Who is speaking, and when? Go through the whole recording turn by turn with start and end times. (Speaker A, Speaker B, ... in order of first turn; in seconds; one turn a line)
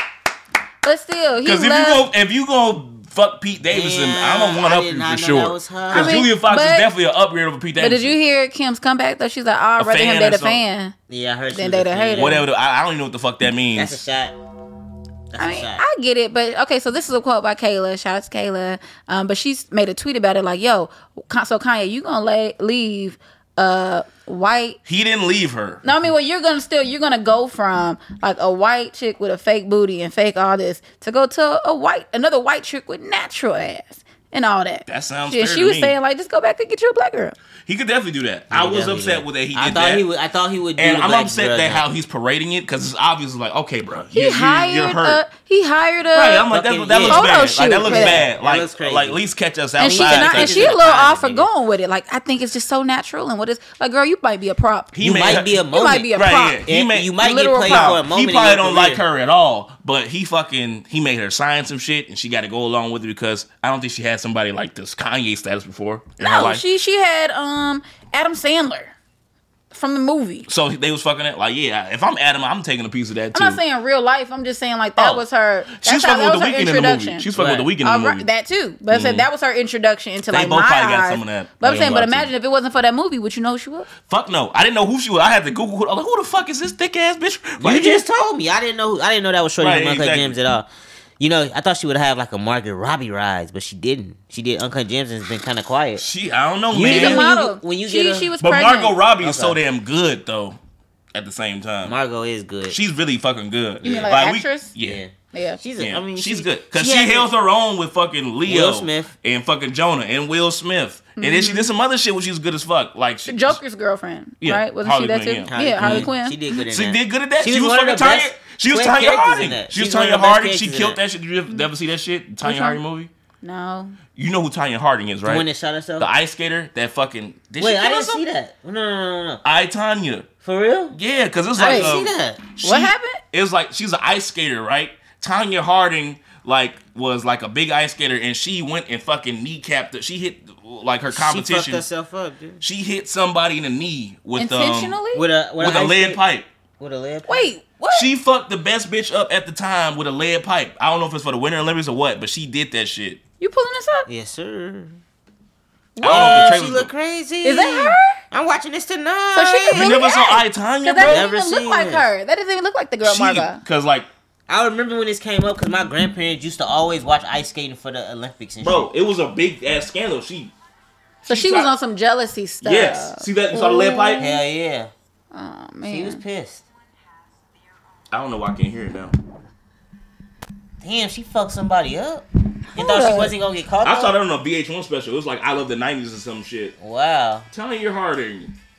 Speaker A: 0.8-2.0
Speaker B: 1.4-8.2
Speaker C: 3.7-6.2
Speaker A: 5.9-6.9
Speaker A: 7.8-10.9
Speaker B: 9.8-10.6
Speaker C: 11.1-12.4
Speaker A: 11.5-12.4
Speaker B: 12.2-14.0
Speaker C: 13.7-14.3
Speaker C: 15.3-15.8
Speaker A: 15.4-24.8
Speaker B: 24.9-25.8
Speaker A: 25.8-37.4
Speaker B: 34.9-36.0
Speaker B: 37.7-40.1
Speaker C: 38.5-41.9
Speaker B: 40.8-45.2
Speaker A: 44.1-46.5
Speaker B: 46.1-50.8
Speaker C: 46.5-49.2
Speaker A: 47.0-48.2
Speaker A: 49.8-54.9
Speaker C: 49.8-51.5
Speaker B: 54.9-55.6
Speaker C: 55.0-59.0
Speaker A: 55.7-56.7
Speaker B: 56.1-66.6
Speaker A: 57.2-58.0
Speaker A: 66.2-69.0
Speaker A: 69.7-70.5
Speaker B: 70.5-73.6
Speaker A: 73.3-77.2
Speaker B: 75.0-75.2
Speaker B: 75.8-78.3
Speaker C: 77.3-77.7
Speaker A: 77.8-83.9
Speaker B: 78.9-79.3
Speaker B: 80.3-82.3
Speaker C: 81.7-82.0
Speaker B: 84.0-88.0
Speaker C: 87.6-90.7
Speaker B: 89.6-90.4
Speaker C: 91.2-96.0
Speaker B: 96.0-97.3
Speaker C: 96.7-98.3
Speaker A: 96.8-99.0
Speaker B: 98.4-100.6
Speaker C: 99.2-99.6
Speaker B: 101.1-102.0
Speaker C: 101.8-102.8
Speaker B: 102.7-105.0
Speaker C: 103.8-104.1
Speaker A: 103.8-104.7
Speaker C: 104.8-107.3
Speaker A: 105.3-105.6
Speaker B: 105.8-113.6
Speaker C: 108.5-109.1
Speaker A: 111.2-111.7
Speaker A: 113.3-116.4
Speaker B: 114.4-116.1
Speaker C: 115.5-121.0
Speaker B: 116.7-123.1
Speaker A: 122.4-122.8
Speaker A: 123.4-124.0
Speaker B: 124.2-125.5
Speaker C: 125.2-126.1
Speaker B: 126.0-128.2
Speaker C: 127.6-129.4
Speaker B: 129.4-130.3
Speaker C: 130.4-130.9
Speaker B: 130.9-141.8
Speaker C: 131.6-132.4
Speaker A: 131.6-131.9
Speaker A: 132.6-133.2
Speaker C: 141.1-142.6
Speaker B: 142.6-145.0
Speaker A: 144.4-145.3
Speaker C: 145.1-146.2
Speaker B: 145.6-146.5
Speaker C: 146.8-147.5
Speaker A: 147.3-148.1
Speaker B: 147.9-153.2
Speaker A: 153.4-154.1
Speaker C: 154.1-155.0
Speaker A: 156.0-156.5
Speaker B: 156.0-156.9
Speaker C: 156.0-159.9
Speaker A: 157.4-158.2
Speaker A: 159.3-163.6
Speaker B: 159.7-161.3
Speaker C: 161.0-162.1
Speaker B: 163.0-164.1
Speaker C: 164.5-168.9
Speaker B: 168.6-170.5
Speaker B: 171.3-171.7
Speaker A: 171.3-174.4
Speaker B: 172.6-174.3
Speaker C: 174.2-174.9
Speaker A: 175.3-176.2
Speaker C: 175.9-176.6
Speaker B: 178.1-179.2
Speaker C: 180.8-184.1
Speaker A: 182.7-183.3
Speaker B: 183.8-186.8
Speaker C: 186.8-187.5
Speaker B: 187.5-188.5